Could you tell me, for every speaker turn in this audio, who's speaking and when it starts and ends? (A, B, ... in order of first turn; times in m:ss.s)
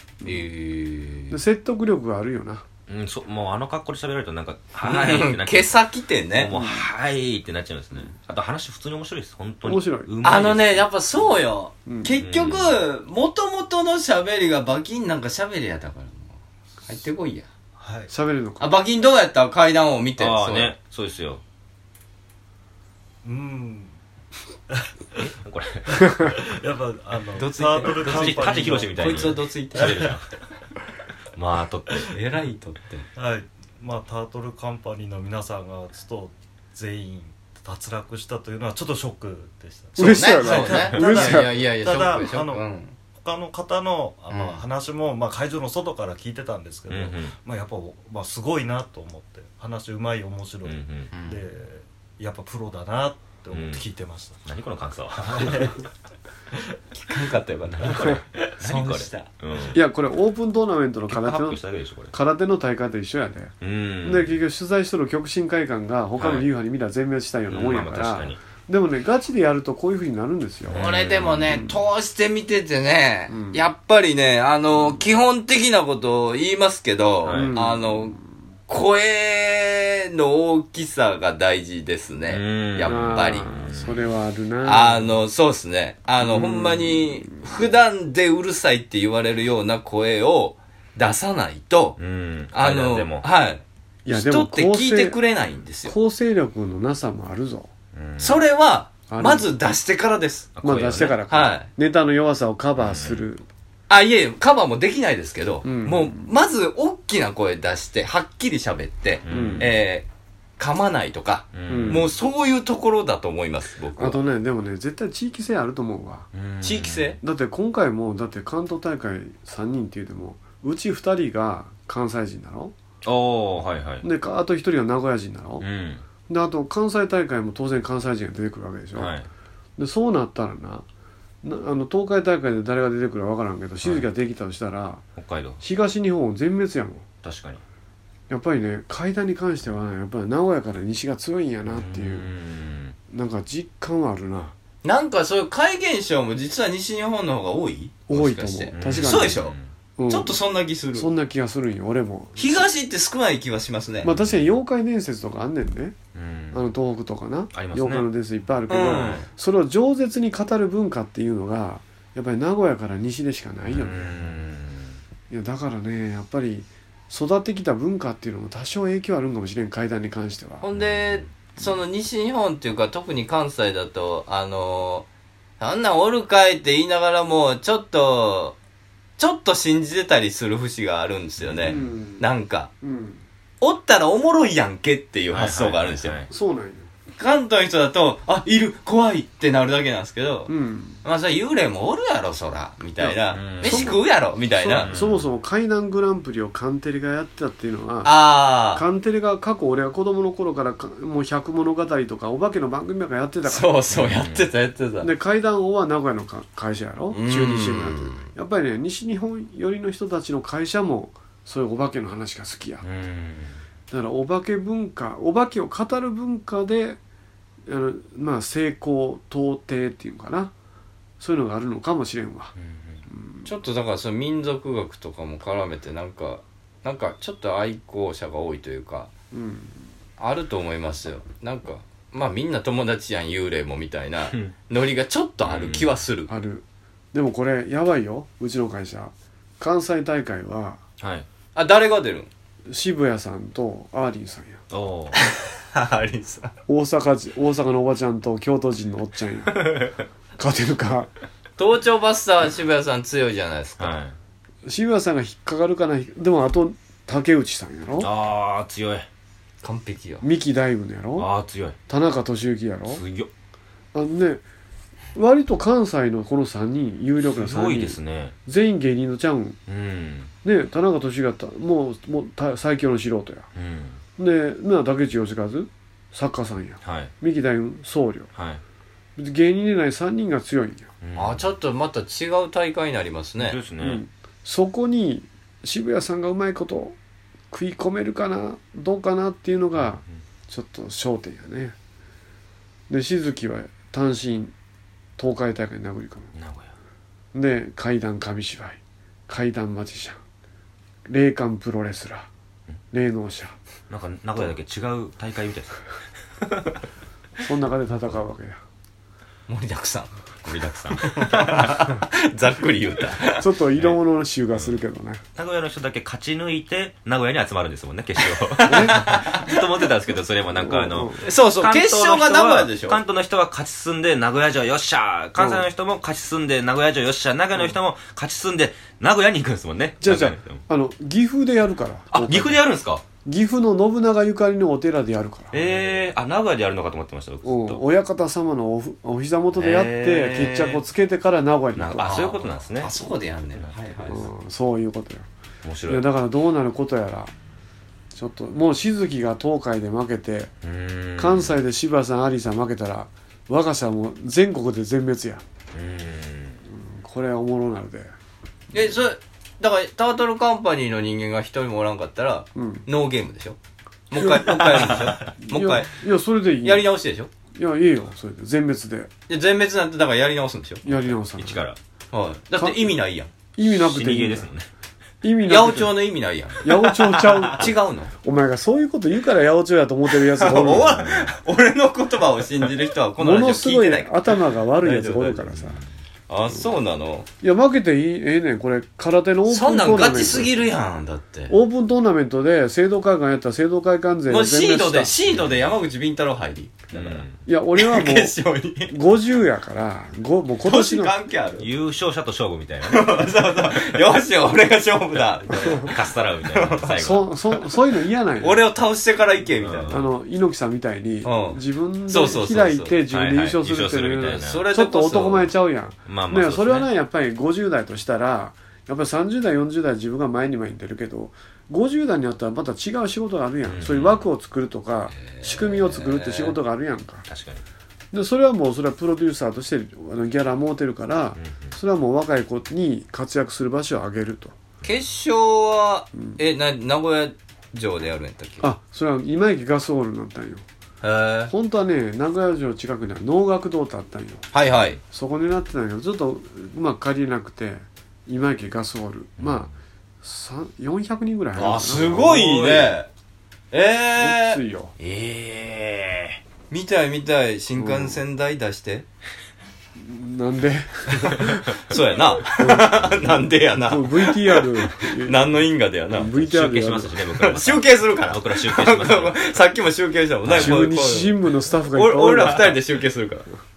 0:00.2-0:00.5 A
0:00.2-0:01.4 B
0:01.3-0:02.6 A
0:02.9-0:05.8 C
0:04.8-0:06.5 B
0:06.4-0:10.9 C
0:06.5-0:06.9 A
0:09.6-0:10.1 A
0:10.2-0:17.5 B
0:11.9-0:12.1 A
0:12.2-0:12.8 C
0:17.8-0:18.1 D
0:18.1-0:18.8 A
0:18.6-0:20.8 B
0:20.2-0:21.4 C
0:23.2-0:23.9 D
0:25.2-0:26.4 C
0:26.2-0:30.2 D
0:27.4-0:30.1 B
0:27.9-0:30.3 C
0:31.4-0:32.1 C
0:32.1-0:33.1 B
0:33.2-0:42.6 D
0:40.0-0:41.5 A
0:40.0-0:42.9 B
0:43.2-0:54.4 D
0:44.3-0:44.6 B
0:46.9-0:47.4 C
0:50.6-0:51.1 C
0:51.1-0:51.4 B
0:53.5-0:53.8 C
0:54.4-0:55.7 C
0:55.2-0:55.8 D
0:56.9-0:59.3 B
0:57.8-0:59.8 C
0:59.7-1:01.6 A
1:01.1-1:02.1 C
1:02.1-1:10.8 A
1:03.6-1:04.4 C
1:06.2-1:06.5 C
1:07.5-1:08.4 C
1:10.7-1:11.5 C
1:10.7-1:18.2 B
1:11.5-1:11.7 A
1:13.3-1:13.6 A
1:17.2-1:17.5 C
1:17.3-1:18.2 A
1:18.7-1:23.5 B
1:22.3-1:24.0 C
1:22.8-1:25.1 A
1:24.6-1:32.0 B
1:26.2-1:27.6 A
1:32.0-1:33.3 C
1:32.5-1:36.0 B
1:34.0-1:35.2 A
1:35.8-1:37.7 A
1:37.9-1:38.4 C
1:38.2-1:40.5 B
1:39.1-1:39.5 A
1:40.6-1:41.2 C
1:40.6-1:43.4 A
1:41.3-1:41.7 B
1:42.8-1:43.2 C
1:43.9-1:50.1 B
1:45.6-1:46.3 A
1:49.2-1:49.8 C
1:49.3-1:49.7 A
1:50.6-1:54.2 B
1:51.5-1:52.1 C
1:51.7-1:52.1 A
1:54.0-1:56.3 A
1:56.3-1:57.1 C
1:56.6-1:57.2 B
1:57.2-2:02.7 A
2:03.0-2:04.1 C
2:04.0-2:05.6 A
2:05.6-2:06.0 C
2:06.3-2:09.1 A
2:09.0-2:09.3 C
2:09.8-2:10.9 A
2:11.4-2:15.0 A
2:15.2-2:15.6 C
2:15.6-2:17.0 A
2:17.2-2:17.6 C
2:18.3-2:22.3 A
2:21.7-2:23.0 C
2:23.1-2:24.5 A
2:24.8-2:29.5 B
2:28.1-2:29.4 A
2:28.8-2:29.7 C
2:30.0-2:30.4 A
2:30.1-2:31.1 B
2:30.9-2:32.7 A
2:32.4-2:34.1 B
2:34.0-2:36.0 A
2:34.1-2:34.5 C
2:36.1-2:36.6 C
2:36.5-2:44.4 A
2:37.5-2:38.1 C
2:38.7-2:39.2 B
2:38.8-2:39.3 C
2:43.6-2:45.0 C
2:45.3-2:50.6 A
2:50.6-2:55.1 B
2:50.8-2:51.2 C
2:55.6-2:58.6 B
2:59.2-3:02.7 B
3:01.5-3:01.8 C
3:01.6-3:02.3 A
3:02.8-3:03.2 A
3:03.6-3:06.2 B
3:05.3-3:06.3 C
3:06.3-3:06.9 A
3:07.2-3:10.5 B
3:10.5-3:11.0 A
3:11.0-3:14.9 B
3:13.0-3:23.8 A
3:13.3-3:14.0 C
3:14.8-3:15.3 C
3:18.0-3:18.8 B
3:23.4-3:25.1 B
3:23.9-3:24.5 C
3:25.0-3:32.8 A
3:27.1-3:28.3 B
3:32.8-3:33.6 C
3:33.9-3:37.0 A
3:37.6-3:40.5 A
3:41.2-3:42.5 A
3:42.6-3:43.0 C
3:43.1-3:43.5 A
3:43.4-3:49.1 B
3:49.3-3:49.8 A
3:50.2-3:56.3 B
3:55.4-3:55.9 C
3:56.3-4:00.8 A
4:01.0-4:01.3 C
4:01.5-4:02.3 B
4:02.7-4:04.6 A
4:04.7-4:05.2 C
4:05.3-4:06.5 B
4:06.7-4:09.9 A
4:09.5-4:10.0 C
4:10.4-4:11.1 A
4:11.6-4:14.0 B
4:13.8-4:14.1 C
4:14.6-4:18.1 A
4:18.0-4:19.1 C
4:19.6-4:20.2 B
4:20.2-4:21.3 A
4:21.2-4:21.8 C
4:21.9-4:23.0 A
4:22.9-4:23.3 C
4:23.9-4:24.4 A
4:25.1-4:29.6 A
4:27.3-4:28.4 C
4:29.7-4:30.3 C
4:30.4-4:33.5 A
4:33.5-4:34.0 C
4:34.2-4:38.3 A
4:36.8-4:37.1 C
4:38.4-4:38.6 C
4:39.2-4:40.9 A
4:41.0-4:41.4 C
4:41.2-4:43.6 B
4:43.4-4:44.0 C
4:43.8-4:47.0 A
4:47.5-4:51.8 A
4:49.8-4:50.0 C
4:52.9-4:54.5 A
4:55.2-4:56.3 A
4:56.4-4:56.7 C
4:57.3-5:00.2 A
5:01.1-5:02.3 A
5:02.9-5:03.6 A
5:03.9-5:05.8 C
5:06.4-5:06.8 C
5:07.4-5:08.6 A
5:09.5-5:10.1 B
5:10.4-5:11.8 C
5:11.0-5:13.4 B
5:13.3-5:15.2 A
5:14.5-5:14.8 C
5:15.4-5:30.6 C
5:18.6-5:19.4 B
5:18.6-5:19.0 A
5:20.5-5:21.2 A
5:21.2-5:23.0 B
5:25.4-5:25.6 A
5:30.0-5:32.6 A
5:32.1-5:33.0 C
5:33.2-5:35.8 A
5:35.5-5:37.8 C
5:37.4-5:42.3 A
5:39.6-5:40.6 C
5:39.7-5:40.8 B
5:41.8-5:42.9 C
5:42.0-5:44.2 B
5:43.6-5:44.1 C
5:44.1-5:45.3 A
5:45.6-5:46.1 C
5:45.9-5:47.3 A
5:48.1-5:50.5 A
5:50.6-5:51.6 C
5:51.2-5:55.4 A
5:55.7-5:56.6 C
5:56.7-5:58.1 A
5:58.7-6:03.6 B
6:02.6-6:02.9 A
6:04.1-6:05.9 B
6:04.1-6:06.9 A
6:06.6-6:07.3 B
6:07.5-6:09.1 A
6:09.3-6:10.8 B
6:10.8-6:11.6 A
6:11.4-6:11.8 C
6:12.1-6:13.3 B
6:12.6-6:12.9 A
6:13.6-6:14.5 A
6:13.6-6:14.7 C
6:15.2-6:16.1 A
6:15.4-6:18.1 B
6:16.6-6:21.0 A
6:20.4-6:25.6 B
6:20.7-6:21.3 C
6:23.2-6:25.8 A
6:26.3-6:27.3 B
6:27.4-6:30.6 A
6:29.5-6:31.6 B
6:31.5-6:35.1 A
6:34.3-6:39.0 B
6:36.9-6:37.4 C
6:37.4-6:38.4 A
6:38.9-6:41.1 A
6:40.6-6:41.7 B
6:41.6-6:43.9 C
6:42.8-6:46.0 B
6:45.6-6:47.3 C
6:46.5-6:46.9 B
6:46.9-6:48.6 A
6:48.4-6:50.0 B
6:49.6-6:50.0 C
6:49.9-7:07.2 A
6:51.2-6:53.0 B
6:53.1-6:54.6 C
6:54.4-6:55.5 B
6:56.1-6:56.9 C
7:03.6-7:04.2 C
7:05.1-7:06.6 B
7:07.3-7:07.6 C
7:08.1-7:14.6 A
7:11.4-7:11.7 C
7:14.8-7:18.7 B
7:18.6-7:20.6 A
7:21.0-7:21.5 B
7:21.5-7:24.5 A
7:24.5-7:25.0 B
7:25.1-7:29.7 A
7:29.4-7:29.7 C
7:30.2-7:32.7 A
7:31.6-7:33.1 B
7:33.7-7:34.6 B
7:34.2-7:34.9 A
7:35.0-7:36.4 C
7:36.7-7:39.1 B
7:37.8-7:38.2 A
7:40.0-7:41.8 A
7:41.9-7:46.3 B
7:42.4-7:47.2 A
7:46.3-7:49.4 C
7:47.4-7:53.5 B
7:50.4-7:50.9 C
7:50.5-7:52.8 A